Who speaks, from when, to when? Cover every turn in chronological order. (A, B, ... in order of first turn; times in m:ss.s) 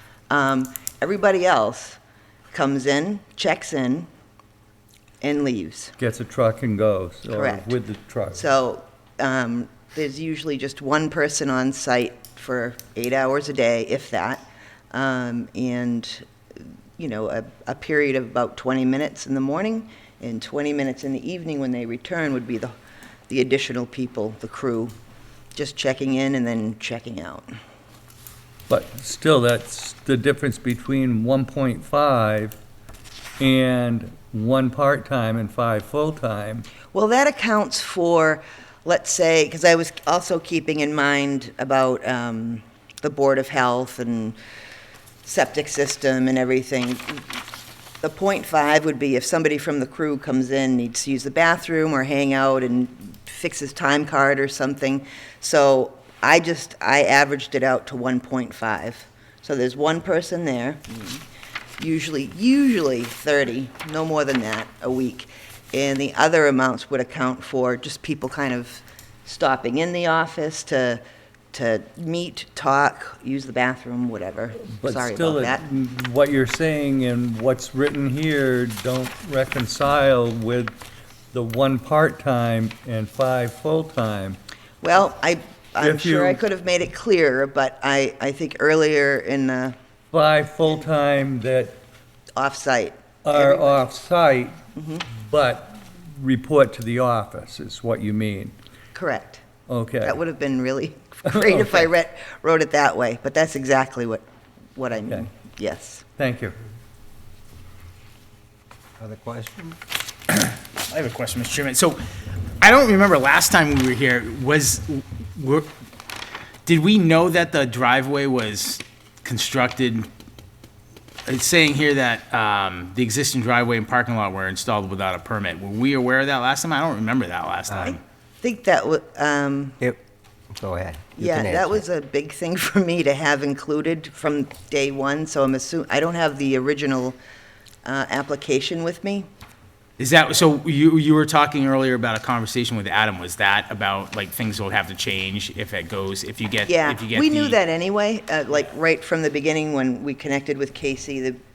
0:00.3-0:02.0 A
0:02.5-0:04.1 A
0:05.2-0:05.9 A
0:06.0-0:08.4 B
0:07.3-0:07.7 A
0:08.3-0:16.2 A
0:17.0-0:22.7 A
0:23.3-0:24.9 A
0:25.5-0:27.5 A
0:28.7-0:32.6 B
0:33.4-0:36.7 B
0:36.9-0:44.4 A
0:45.2-0:47.4 A
0:48.0-1:01.2 A
1:01.8-1:11.0 A
1:11.5-1:15.6 A
1:14.6-1:20.8 B
1:21.3-1:24.4 B
1:24.8-1:29.7 A
1:25.8-1:26.4 B
1:30.1-1:31.8 B
1:32.4-1:33.8 A
1:33.2-1:34.5 B
1:34.8-1:35.0 A
1:35.1-1:38.5 B
1:38.9-1:39.4 A
1:39.7-1:40.2 B
1:40.0-1:44.2 A
1:41.3-1:41.9 B
1:44.8-1:46.0 A
1:46.2-1:46.6 B
1:49.0-1:49.8 C
1:50.3-1:52.0 D
1:52.6-1:55.7 D
1:56.6-2:00.1 D
2:01.2-2:08.0 D
2:07.8-2:09.8 A
2:10.5-2:11.8 C
2:11.2-2:17.2 A
2:17.8-2:19.3 A
2:20.0-2:27.6 D
2:26.6-2:31.4 A